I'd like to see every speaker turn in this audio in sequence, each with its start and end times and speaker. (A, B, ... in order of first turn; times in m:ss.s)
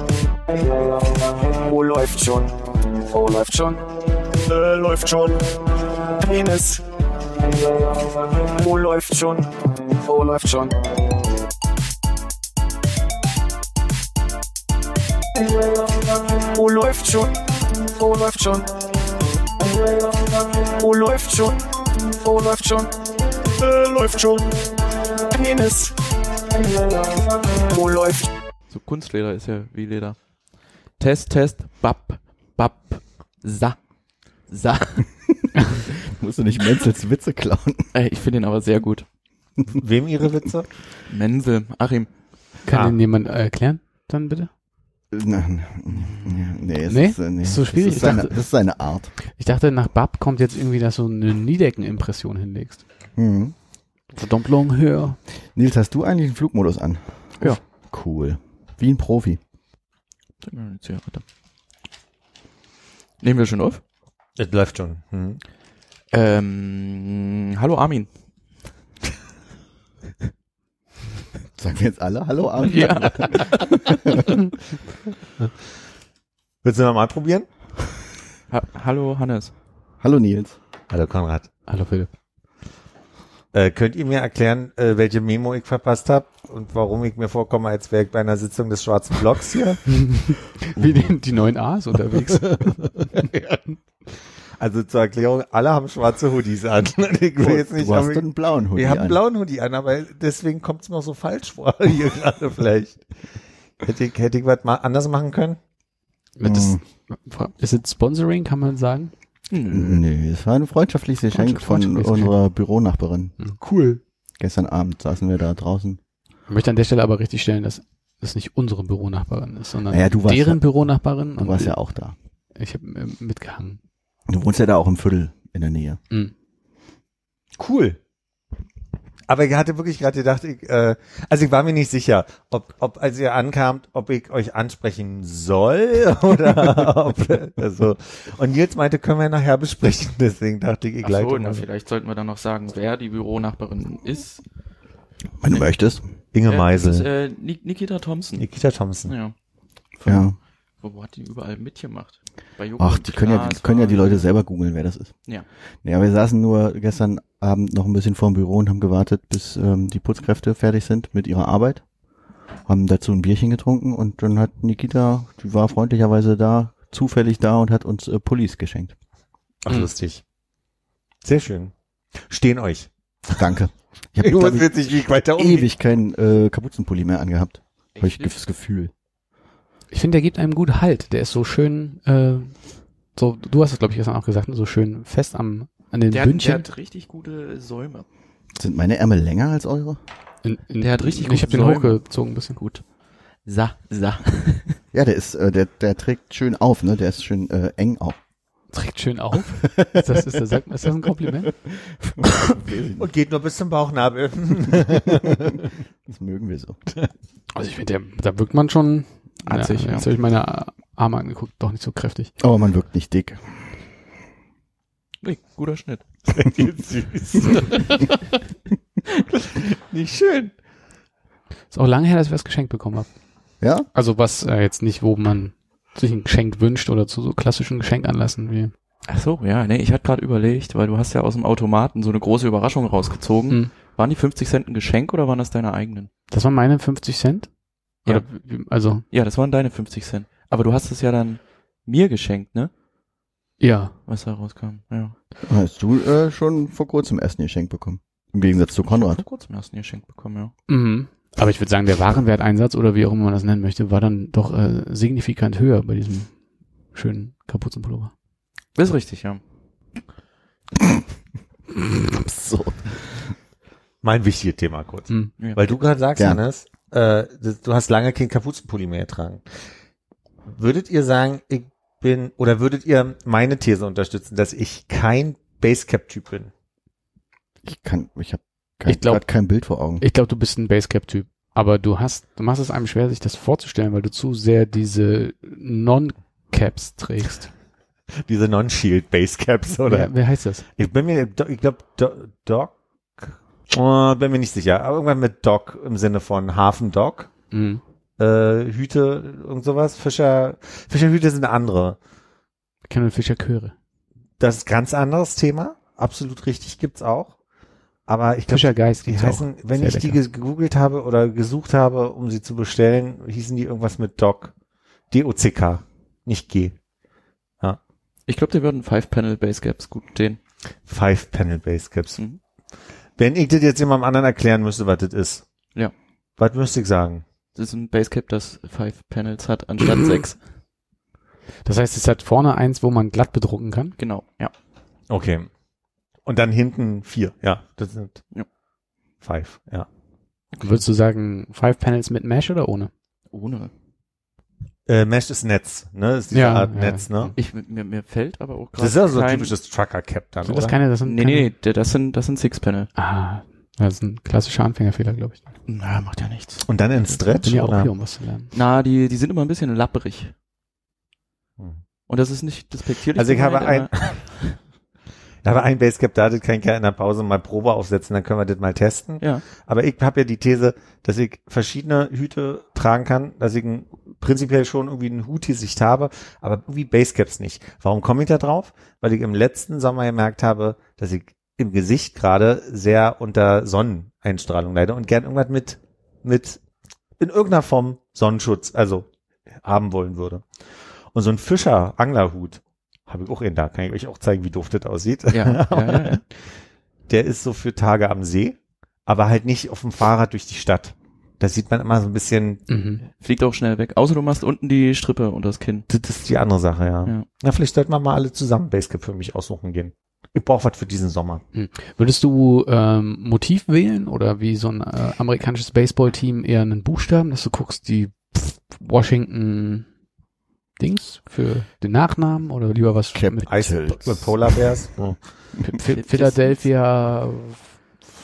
0:00.5-0:06.8 A
0:07.4-0:11.1 A
0:15.5-0:18.9 A
0:19.6-0:23.0 A
0:23.5-0:26.0 A
0:26.8-0:28.3 A
0:28.7-0:33.9 B
0:34.4-0:35.2 B
0:36.0-0:37.9 C
0:37.9-0:39.1 B
0:39.8-0:40.7 D
0:41.1-0:42.1 B
0:42.7-0:44.5 E
0:42.7-0:43.0 D
0:45.1-0:49.1 C
0:46.0-0:46.4 B
0:46.9-0:48.3 E
0:49.3-0:52.8 E
0:53.2-0:53.6 C
0:54.2-0:55.2 E
0:55.5-0:59.4 C
1:00.4-1:01.2 B
1:03.2-1:03.8 B
1:04.4-1:05.4 D
1:06.1-1:08.1 B
1:11.6-1:14.3 C
1:12.6-1:13.8 B
1:16.6-1:17.5 D
1:18.5-1:19.5 B
1:20.0-1:20.6 C
1:20.9-1:21.5 D
1:21.7-1:22.1 E
1:23.5-1:29.9 D
1:29.9-1:33.2 E
1:32.7-1:33.6 D
1:34.6-1:43.0 D
1:37.4-1:39.2 C
1:43.8-1:45.6 D
1:46.4-1:49.1 E
1:46.4-1:46.8 C
1:49.5-1:50.0 B
1:49.7-1:53.4 C
1:51.3-1:52.4 E
1:53.4-1:54.0 E
1:54.4-1:56.0 C
1:56.5-2:01.8 E
1:59.9-2:00.7 C
2:01.4-2:02.2 C
2:02.6-2:03.8 E
2:04.3-2:06.0 C
2:07.6-2:08.0 D
2:09.3-2:21.6 D
2:21.0-2:24.4 B
2:25.4-2:26.0 C
2:26.3-2:27.1 D
2:26.5-2:28.5 B
2:28.4-2:29.1 D
2:29.1-2:29.4 B
2:30.0-2:30.3 B
2:30.1-2:30.4 C
2:30.8-2:34.3 B
2:32.8-2:35.2 C
2:35.8-2:41.9 C
2:42.6-2:49.0 C
2:49.6-2:50.2 D
2:51.2-2:52.9 D
2:53.4-2:54.7 C
2:54.2-2:55.7 D
2:55.3-2:58.9 C
2:58.0-2:58.3 B
2:59.9-3:02.6 E
3:03.1-3:06.7 E
3:06.1-3:08.1 B
3:08.6-3:10.0 C
3:10.4-3:12.6 E
3:10.8-3:14.8 B
3:14.9-3:18.2 C
3:18.7-3:21.5 E
3:19.8-3:20.3 C
3:21.4-3:23.1 C
3:23.0-3:25.6 D
3:26.1-3:26.8 C
3:27.6-3:32.3 E
3:29.5-3:30.1 B
3:32.4-3:33.8 C
3:35.2-3:36.0 B
3:36.3-3:38.2 D
3:39.3-3:40.5 D
3:41.7-3:43.1 E
3:43.6-3:43.9 C
3:43.9-3:48.7 E
3:49.1-3:56.1 B
3:56.3-3:57.5 E
3:58.0-3:59.0 E
3:59.1-4:02.7 B
4:03.6-4:04.0 E
4:04.1-4:05.1 B
4:05.4-4:09.2 C
4:08.9-4:10.5 B
4:10.7-4:16.3 E
4:16.9-4:18.1 E
4:18.8-4:19.4 B
4:21.9-4:23.4 C
4:24.0-4:29.4 D
4:26.2-4:26.4 C
4:30.5-4:36.5 D
4:37.6-4:40.0 C
4:38.9-4:39.3 E
4:40.0-4:47.5 E
4:48.2-4:50.1 D
4:49.9-4:50.6 E
4:50.8-4:57.3 D
4:57.5-4:57.8 E
4:58.2-5:02.0 D
5:02.9-5:03.7 E
5:04.4-5:07.4 D
5:08.1-5:14.5 D
5:08.5-5:10.2 E
5:15.1-5:16.8 D
5:18.3-5:20.4 B
5:20.9-5:22.2 D
5:23.2-5:25.4 D
5:26.4-5:27.2 D
5:27.6-5:30.4 B
5:31.6-5:34.0 E
5:34.0-5:34.5 B
5:35.1-5:35.5 D
5:36.2-5:38.2 D
5:39.2-5:39.9 D
5:40.6-5:42.9 E
5:43.3-5:43.7 B
5:44.9-5:47.3 D
5:46.3-5:47.3 E
5:47.4-5:49.6 B
5:48.8-5:50.8 D
5:50.4-5:51.5 E
5:51.0-5:52.9 B
5:53.0-5:55.4 E
5:55.7-5:57.2 B
5:56.6-5:57.9 D
5:57.4-5:58.5 E
5:58.5-6:00.3 B
6:02.1-6:04.6 B
6:03.1-6:04.4 D
6:05.4-6:26.6 D
6:27.2-6:29.1 D
6:29.6-6:30.5 D
6:31.1-6:36.2 D
6:35.3-6:36.2 B
6:37.1-6:42.6 D
6:42.7-6:43.0 E
6:43.2-6:45.9 B
6:45.9-6:51.4 D
6:51.5-6:59.9 E
7:00.8-7:03.8 E
7:03.1-7:04.6 C
7:03.5-7:05.2 D
7:05.7-7:06.6 B
7:05.8-7:07.8 E